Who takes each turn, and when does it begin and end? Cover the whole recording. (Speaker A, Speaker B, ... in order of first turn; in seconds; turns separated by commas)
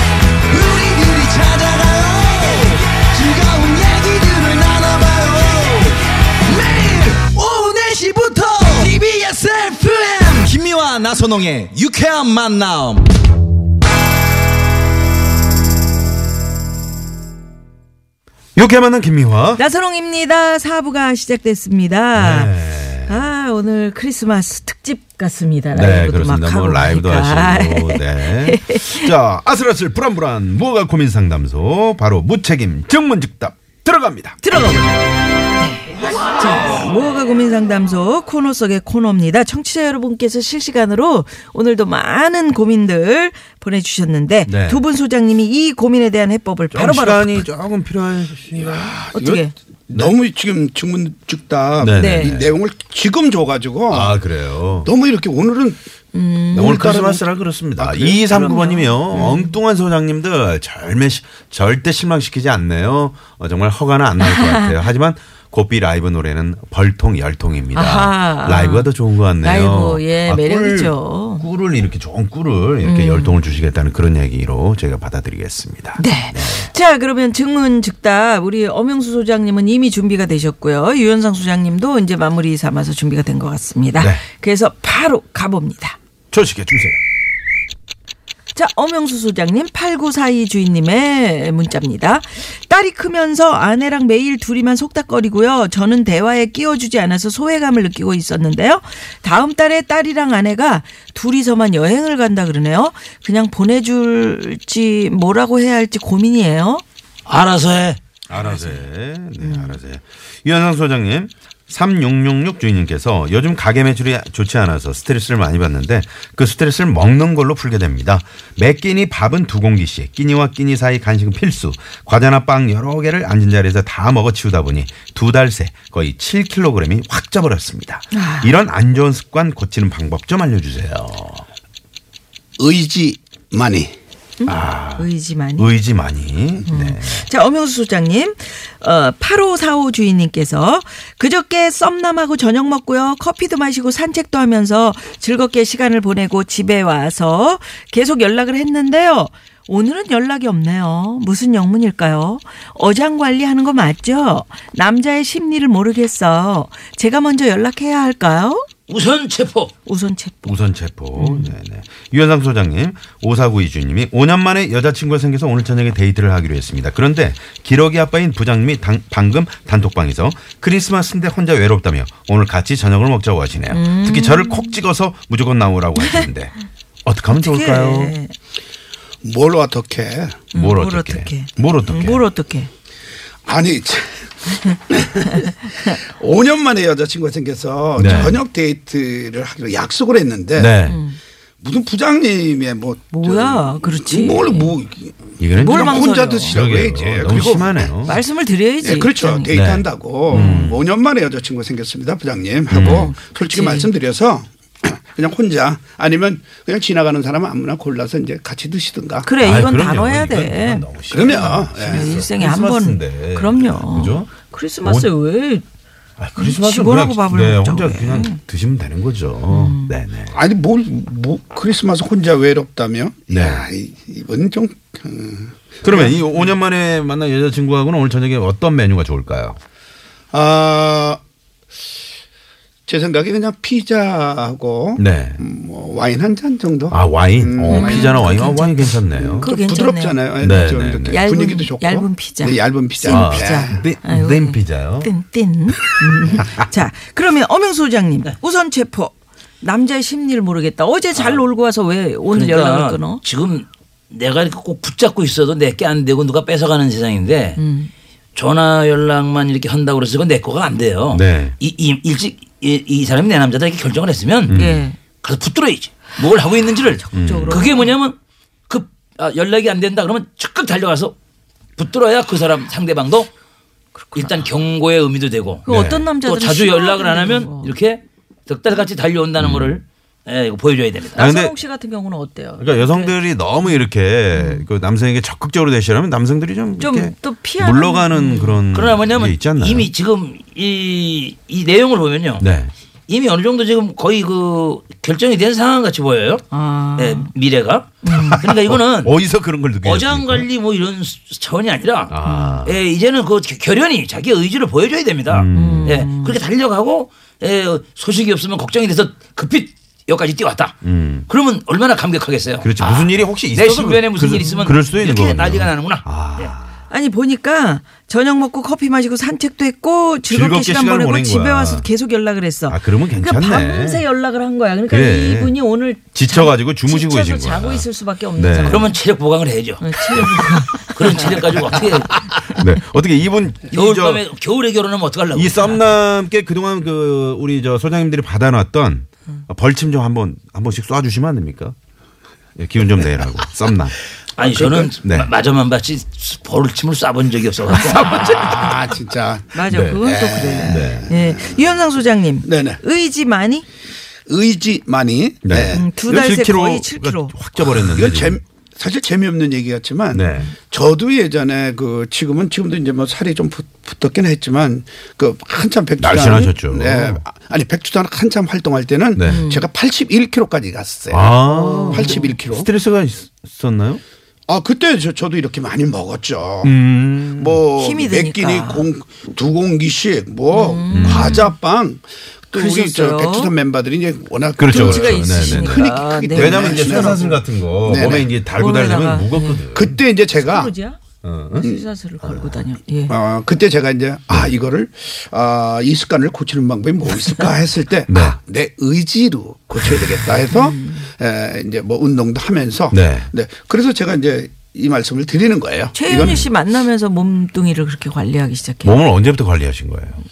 Speaker A: 0.4-13.1, Speaker B: 18.6-19.6, Speaker C: 19.6-29.1, Speaker B: 22.1-23.3, Speaker B: 25.7-34.8, Speaker C: 34.4-35.0, Speaker C: 35.6-47.5, Speaker B: 44.5-44.8, Speaker B: 46.7-49.0, Speaker D: 48.5-54.2, Speaker C: 49.1-49.5, Speaker B: 51.8-52.6, Speaker C: 52.0-52.4, Speaker B: 53.9-54.9, Speaker D: 54.8-55.8, Speaker C: 56.1-57.0, Speaker D: 56.5-57.2, Speaker B: 56.5-76.7, Speaker D: 57.7-58.6, Speaker C: 58.3-59.5, Speaker C: 64.2-64.8, Speaker C: 67.7-71.4, Speaker C: 72.8-73.4, Speaker C: 76.0-86.0, Speaker B: 84.0-84.2, Speaker B: 86.3-87.0, Speaker C: 88.5-106.8, Speaker E: 107.2-108.0, Speaker B: 108.3-131.4, Speaker C: 108.3-108.8, Speaker C: 109.4-109.8, Speaker C: 128.1-128.6, Speaker D: 132.6-133.9, Speaker C: 134.4-135.7, Speaker B: 134.4-137.2, Speaker C: 136.7-158.6, Speaker E: 158.9-159.7, Speaker C: 159.8-160.6, Speaker B: 160.4-178.2, Speaker C: 161.1-161.5, Speaker C: 173.7-174.8, Speaker C: 176.0-176.3, Speaker C: 177.3-178.3, Speaker D: 179.2-180.4, Speaker B: 180.5-182.2, Speaker C: 180.5-182.7, Speaker D: 183.4-190.7, Speaker B: 187.9-188.4, Speaker C: 188.0-188.4, Speaker B: 190.6-191.0, Speaker C: 190.8-191.2, Speaker D: 191.6-197.9, Speaker C: 193.1-194.7, Speaker B: 195.4-198.2, Speaker C: 195.6-196.6, Speaker C: 198.0-199.5, Speaker D: 198.8-209.3, Speaker B: 199.5-200.8, Speaker C: 200.3-200.7, Speaker B: 202.7-203.1, Speaker C: 202.8-203.9, Speaker C: 209.2-215.6, Speaker B: 209.4-214.3, Speaker D: 211.1-212.1, Speaker B: 214.8-215.1, Speaker B: 216.2-220.4, Speaker C: 216.3-218.4, Speaker C: 219.5-220.0, Speaker D: 220.3-226.2, Speaker B: 223.3-223.7, Speaker B: 225.8-229.6, Speaker D: 230.3-231.2, Speaker D: 232.9-238.3, Speaker B: 235.0-235.4, Speaker B: 236.9-239.5, Speaker C: 237.7-253.2, Speaker D: 239.2-243.8, Speaker B: 240.4-241.2, Speaker B: 243.1-245.1, Speaker B: 246.2-246.5, Speaker E: 251.1-251.4, Speaker E: 252.3-257.6, Speaker C: 257.6-257.9, Speaker E: 258.3-264.6, Speaker B: 261.1-261.6, Speaker B: 264.4-264.8, Speaker C: 264.5-265.0, Speaker E: 265.2-268.2, Speaker C: 267.0-267.9, Speaker B: 267.1-267.6, Speaker E: 268.7-271.1, Speaker E: 271.8-273.3, Speaker C: 273.9-274.4, Speaker E: 274.1-275.7, Speaker C: 275.6-277.7, Speaker B: 275.7-276.1, Speaker E: 276.2-281.2, Speaker B: 279.4-279.8, Speaker B: 281.1-281.6, Speaker C: 281.1-283.8, Speaker B: 282.6-289.9, Speaker C: 284.3-284.6, Speaker C: 286.8-288.6, Speaker E: 288.7-292.4, Speaker B: 292.4-292.7, Speaker E: 293.1-299.1, Speaker C: 296.5-297.3, Speaker C: 298.0-298.5, Speaker B: 298.1-300.5, Speaker E: 299.8-316.5, Speaker B: 302.1-302.8, Speaker C: 302.2-302.6, Speaker B: 305.3-306.0, Speaker C: 305.5-306.4, Speaker B: 310.8-311.3, Speaker B: 312.6-316.8, Speaker C: 314.4-314.8, Speaker C: 316.9-329.0, Speaker B: 320.3-321.9, Speaker B: 322.7-324.1, Speaker B: 324.9-325.6, Speaker B: 326.1-328.9, Speaker E: 328.6-332.2, Speaker C: 329.8-331.9, Speaker B: 332.2-334.2, Speaker E: 333.7-335.9, Speaker B: 335.3-341.8, Speaker B: 342.6-344.0, Speaker E: 344.4-348.4, Speaker D: 344.4-344.9, Speaker B: 345.0-345.3, Speaker B: 347.7-348.8, Speaker D: 348.4-351.5, Speaker C: 349.5-353.6, Speaker B: 349.7-350.0, Speaker B: 350.6-351.1, Speaker D: 352.4-352.8, Speaker D: 354.3-355.8, Speaker B: 355.4-358.4, Speaker C: 355.7-357.3, Speaker D: 357.6-371.3, Speaker B: 360.1-360.5, Speaker B: 366.0-367.2, Speaker B: 369.1-369.4, Speaker C: 369.2-369.6, Speaker B: 371.1-374.0, Speaker C: 371.5-372.3, Speaker D: 371.9-372.7, Speaker D: 374.5-376.8, Speaker B: 376.6-377.6, Speaker D: 377.4-388.3, Speaker C: 377.7-378.9, Speaker C: 380.5-381.6, Speaker B: 380.9-381.4, Speaker C: 382.5-383.5, Speaker B: 384.6-390.0, Speaker C: 384.6-387.4, Speaker C: 388.6-389.6, Speaker D: 389.7-390.7, Speaker C: 390.4-391.0, Speaker B: 391.2-391.6, Speaker C: 391.5-393.1, Speaker B: 392.2-392.6, Speaker D: 393.1-406.4, Speaker C: 397.2-397.5, Speaker B: 398.1-398.4, Speaker B: 399.8-400.2, Speaker C: 400.5-401.1, Speaker B: 402.9-403.3, Speaker C: 405.9-409.0, Speaker B: 406.1-406.5, Speaker B: 408.8-410.2